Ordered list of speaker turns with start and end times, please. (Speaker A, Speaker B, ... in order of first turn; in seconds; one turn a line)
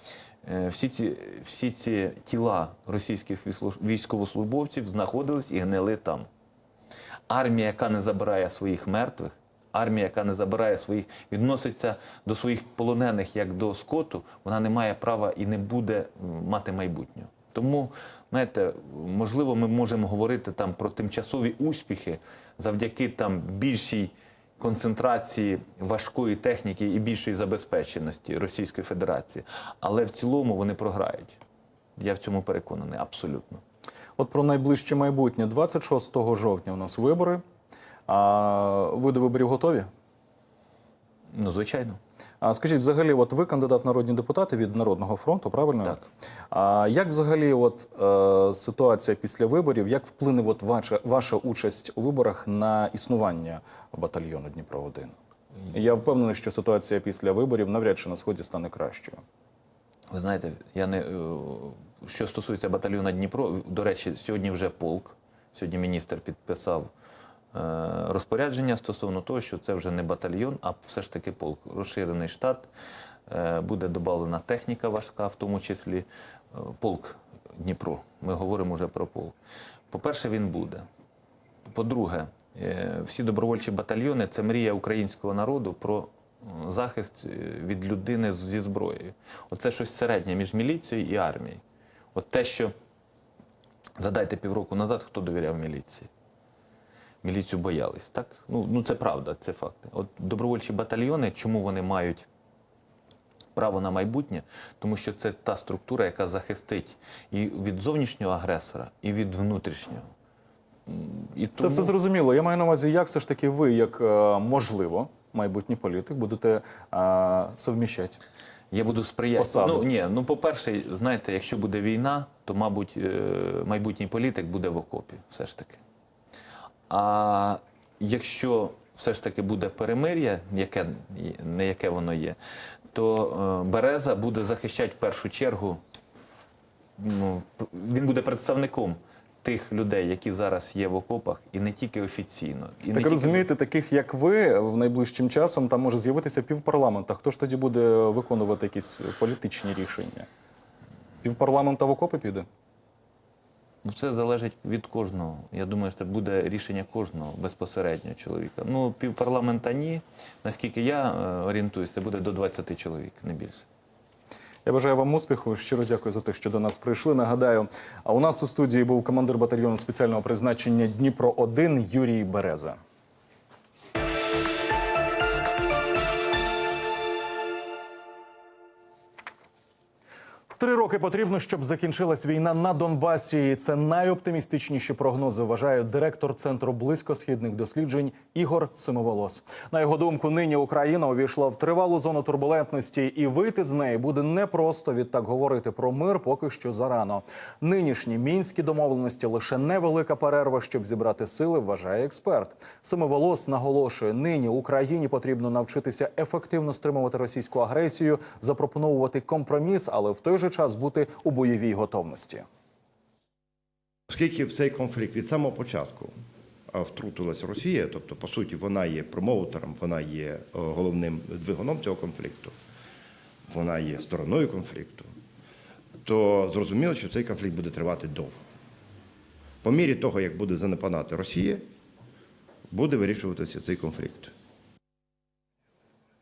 Speaker A: 0.4-6.3
Speaker A: 7.3-31.4
Speaker A: 32.0-33.6
Speaker B: 34.2-37.4
Speaker B: 38.1-39.9
Speaker A: 41.3-42.0
Speaker B: 42.4-55.1
Speaker B: 55.7-59.2
Speaker A: 60.1-66.9
Speaker A: 67.5-72.7
Speaker A: 73.3-79.3
Speaker A: 79.9-80.8
Speaker A: 81.7-91.6
Speaker A: 92.1-92.7
Speaker A: 94.0-96.1
Speaker A: 97.2-102.3
Speaker A: 103.5-110.0
Speaker A: 110.9-111.9
Speaker B: 111.6-118.2
Speaker A: 118.7-125.8
Speaker B: 119.3-119.9
Speaker A: 126.9-132.4
Speaker A: 132.9-135.8
Speaker A: 137.0-143.4
Speaker B: 142.9-150.3
Speaker B: 151.2-152.4
Speaker A: 153.8-163.6
Speaker B: 164.6-172.8
Speaker B: 180.5-212.4
Speaker C: 214.1-216.2
Speaker C: 216.7-222.5
Speaker C: 223.5-225.1
Speaker C: 226.0-228.3
Speaker C: 229.6-231.6
Speaker C: 232.7-234.3